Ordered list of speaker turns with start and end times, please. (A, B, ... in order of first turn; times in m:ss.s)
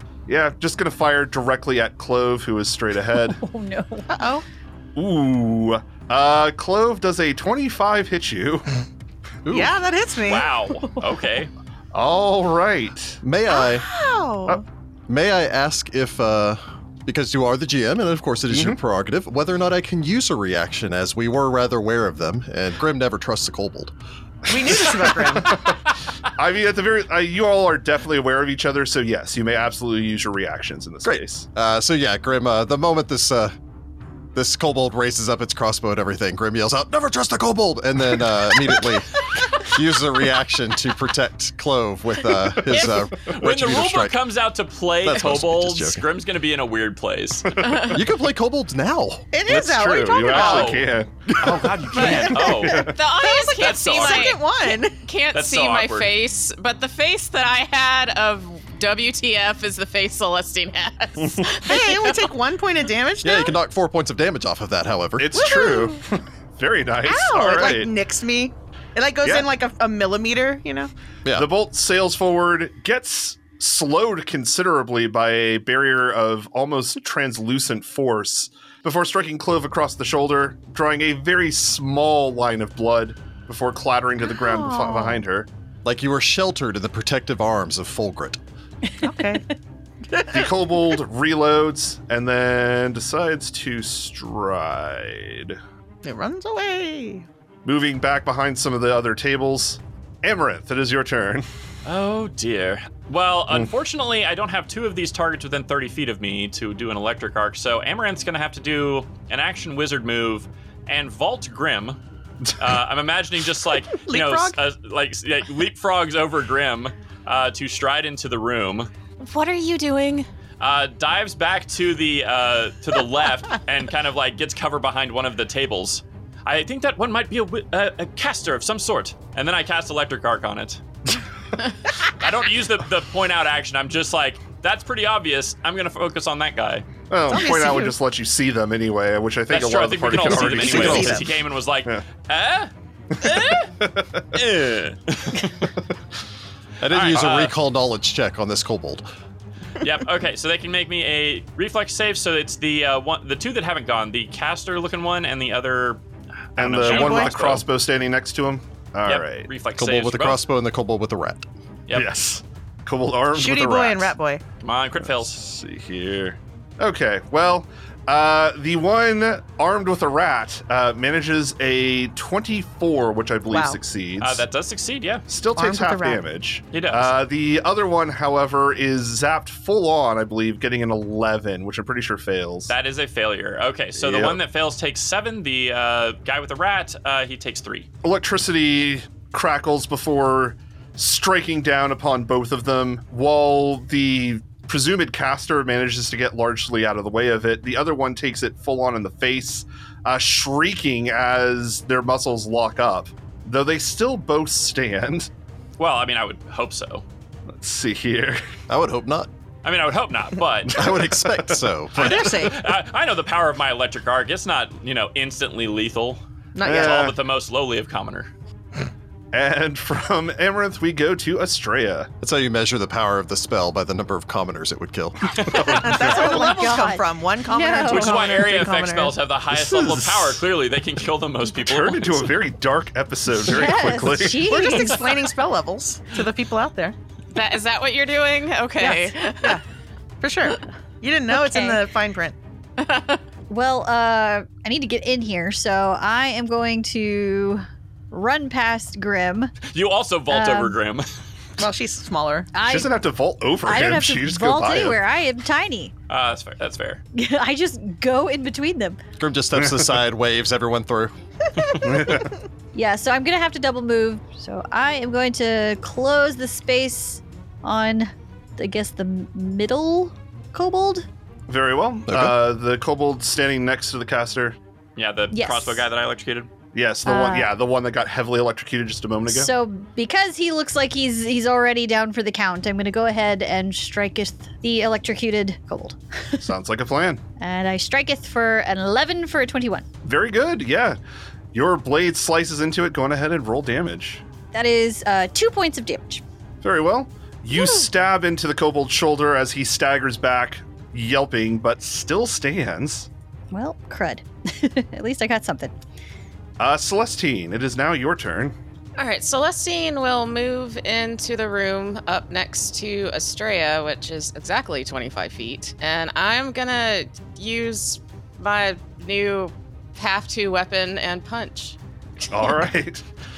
0:00.3-0:03.4 A
0:03.3-0:04.2 B
0:04.1-0:04.4 C
0:05.0-0:08.8 A
0:09.5-0:09.8 D
0:09.5-0:10.5 C
0:10.2-0:11.5 E
0:11.9-0:13.2 A
0:13.2-0:13.9 D
0:13.5-0:14.6 C
0:15.1-0:24.0 D
0:18.5-0:18.8 A
0:24.5-0:25.7 C
0:24.5-0:25.8 A
0:26.3-0:31.5 A
0:31.0-0:33.5 D
0:34.3-0:44.2 D
0:42.6-0:42.9 A
0:42.7-0:47.6 E
0:45.0-0:46.1 D
0:47.5-0:47.9 A
0:47.6-0:48.0 F
0:47.9-0:49.3 D
0:49.3-0:50.8 C
0:49.5-0:53.0 A
0:50.1-0:53.0 E
0:52.0-0:55.0 C
0:52.7-0:54.5 F
0:53.6-0:54.4 E
0:55.0-1:02.3 F
0:55.3-0:56.1 E
1:01.7-1:03.6 C
1:03.2-1:05.5 D
1:05.2-1:07.9 A
1:05.3-1:06.0 C
1:07.0-1:10.9 C
1:09.2-1:09.5 A
1:11.3-1:25.5 A
1:24.3-1:25.2 C
1:25.8-1:28.4 D
1:29.0-1:29.4 C
1:30.1-1:30.5 C
1:30.3-1:35.6 A
1:36.0-1:37.3 C
1:37.6-1:41.5 A
1:41.9-1:52.0 E
1:52.6-1:58.9 E
1:53.9-1:54.6 C
1:59.2-2:00.3 F
2:00.6-2:10.8 E
2:12.1-2:16.9 E
2:17.1-2:21.3 A
2:17.3-2:18.0 C
2:19.5-2:23.7 E
2:20.4-2:21.2 D
2:20.4-2:21.3 C
2:23.2-2:24.4 A
2:24.3-2:25.6 E
2:26.8-2:29.1 D
2:26.9-2:27.6 E
2:29.8-2:36.0 E
2:36.6-2:37.7 E
2:36.6-2:39.5 A
2:36.8-2:37.5 C
2:39.1-2:40.4 E
2:39.8-2:41.4 D
2:41.9-2:44.2 A
2:43.3-2:44.4 C
2:44.6-2:45.4 E
2:45.0-2:54.4 A
2:53.5-2:53.8 C
2:54.2-2:55.2 E
2:55.3-3:02.7 A
2:55.6-2:56.2 C
2:56.7-2:57.1 E
3:02.7-3:07.9 E
3:04.0-3:04.4 A
3:08.0-3:25.3 A
3:25.8-3:27.0 E
3:27.5-3:28.4 A
3:28.7-3:29.3 D
3:29.6-3:30.8 E
3:30.7-3:31.6 A
3:30.7-3:32.4 D
3:32.0-3:38.3 E
3:32.0-3:32.6 C
3:36.6-3:37.0 C
3:36.6-3:37.2 A
3:39.3-3:42.1 A
3:42.2-3:45.3 D
3:45.3-3:45.8 E
3:45.5-3:46.3 A
3:45.6-3:49.2 C
3:46.0-3:48.1 B
3:47.9-3:52.4 E
3:49.5-3:50.4 A
3:51.5-3:54.6 A
3:53.5-3:55.2 B
3:54.4-3:57.0 C
3:57.3-3:59.6 F
3:58.8-3:59.6 C
4:00.2-4:02.4 C
4:01.3-4:01.8 B
4:02.8-4:03.2 F
4:03.5-4:09.5 B
4:09.7-4:11.1 E
4:10.3-4:10.8 B
4:11.6-4:12.5 C
4:12.5-4:12.9 B
4:12.7-4:15.0 A
4:13.6-4:15.9 B
4:16.1-4:17.0 E
4:17.1-4:19.0 B
4:19.2-4:21.2 D
4:19.6-4:20.0 A
4:21.6-4:22.3 C
4:21.8-4:22.4 A
4:22.7-4:31.0 B
4:31.5-4:34.6 A
4:32.1-4:32.4 D
4:35.0-4:36.5 E
4:35.3-4:35.8 B
4:36.7-4:39.5 A
4:37.0-4:37.5 B
4:39.3-4:46.5 B
4:46.4-4:47.2 A
4:47.4-4:49.8 B
4:50.0-4:51.0 A
4:51.5-4:54.2 A
4:54.5-4:56.2 B
4:56.6-5:03.1 A
5:03.5-5:05.7 B
5:06.6-5:08.6 A
5:09.0-5:21.8 F
5:22.3-5:23.0 A